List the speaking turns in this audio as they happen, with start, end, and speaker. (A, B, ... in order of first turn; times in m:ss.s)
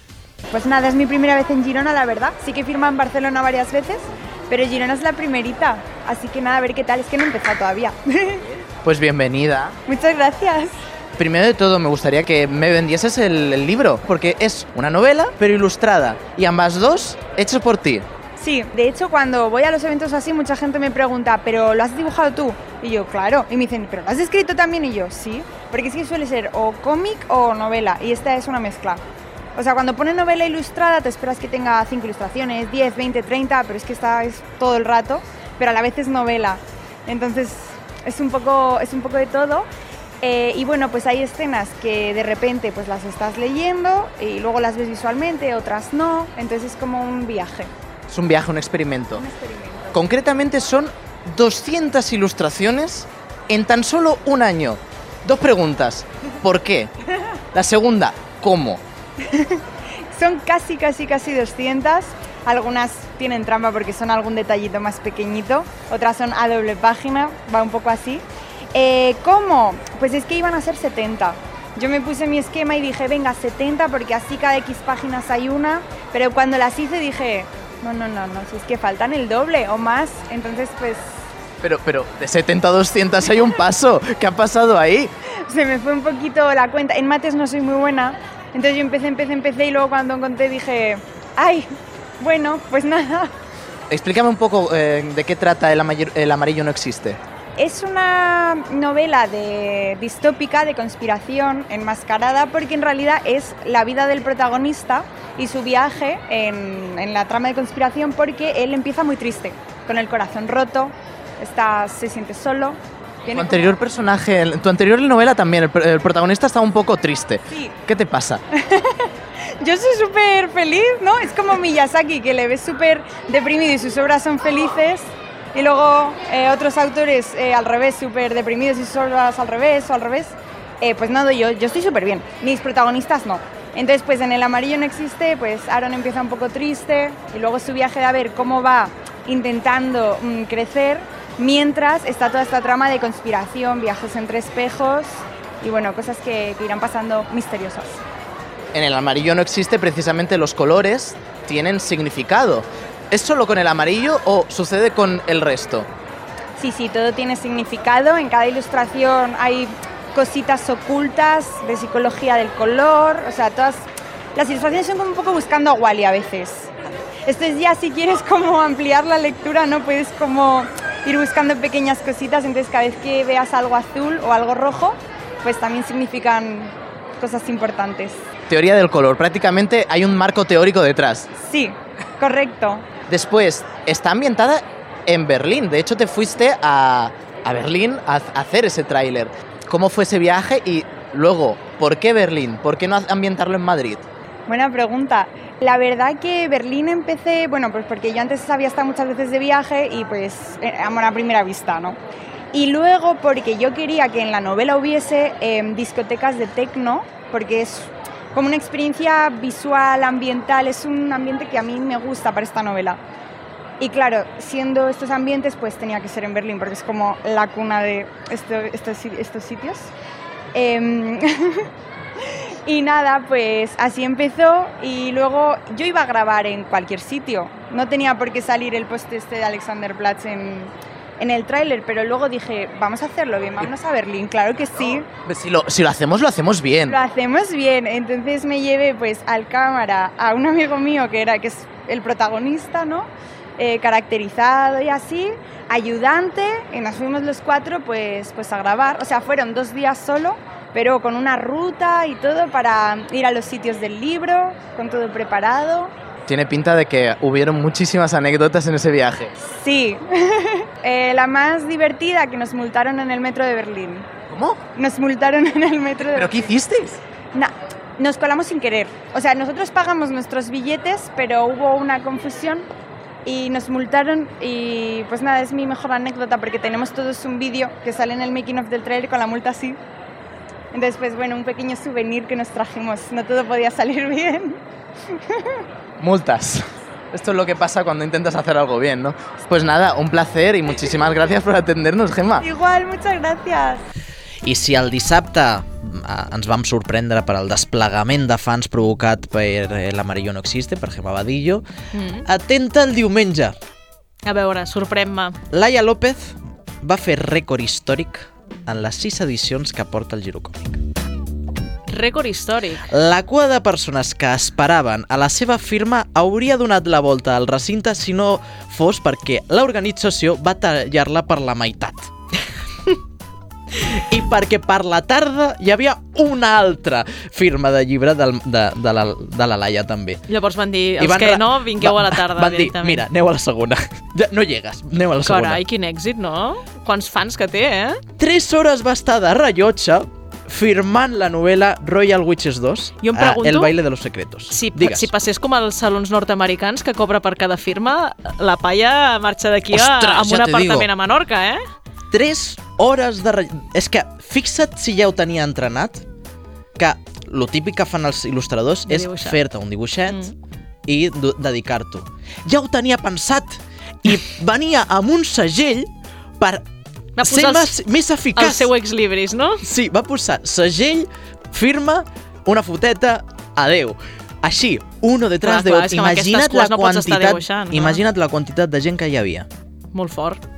0:00.5-0:08.4 A
0:08.8-0:09.8 B
0:09.9-0:10.7 A
0:11.2-0:18.0 B
0:18.4-0:29.0 A
0:29.6-0:39.7 A
0:40.2-0:47.7 A
0:48.1-0:49.2 B
0:49.2-0:50.0 A
0:49.9-0:56.9 B
0:57.5-0:58.8 B
0:59.2-0:59.6 A
1:00.1-1:21.2 A
1:21.6-1:25.1 B
1:25.5-1:31.7 A
1:32.2-1:33.3 A
1:33.9-1:37.2 B
1:37.6-1:53.7 A
1:53.3-1:58.4 B
1:57.5-1:57.8 A
1:58.5-1:59.1 A
1:59.6-2:28.0 A
2:28.7-2:35.9 B
2:36.6-2:46.7 A
2:47.2-2:58.2 A
2:58.5-3:01.3 B
3:01.4-3:02.9 A
3:03.1-3:14.0 B
3:14.5-3:22.0 A
3:22.5-3:33.0 A
3:33.8-3:39.9 A
3:40.5-3:41.6 A
3:42.6-3:55.0 A
3:55.2-3:57.0 B
3:56.8-4:15.9 A
4:16.3-4:19.3 B
4:19.4-4:24.1 A
4:24.3-4:24.6 B
4:24.8-4:26.5 A
4:26.2-4:27.0 B
4:27.3-4:32.7 A
4:33.2-4:39.8 A
4:40.7-4:44.6 A
4:45.1-4:45.6 A
4:46.0-4:52.4 B
4:52.4-4:53.8 A
4:54.4-5:01.6 C
5:01.9-5:02.2 D
5:02.2-5:03.6 C
5:04.2-5:05.4 D
5:05.5-5:10.8 C
5:11.9-5:12.8 D
5:12.9-5:22.1 C
5:23.9-5:30.2 C
5:30.3-5:33.0 D
5:31.0-5:35.6 C
5:35.2-5:38.0 D
5:38.2-5:45.1 C
5:43.0-5:43.7 D
5:44.5-5:51.6 D
5:49.7-5:50.8 B
5:52.1-5:56.0 C
5:56.8-6:00.3 C
5:58.9-5:59.4 D
6:00.1-6:00.3 D
6:00.9-6:06.6 C
6:07.2-6:07.8 D
6:07.2-6:08.7 C
6:08.4-6:09.6 D
6:09.6-6:19.5 C
6:15.4-6:18.0 D
6:19.9-6:20.4 D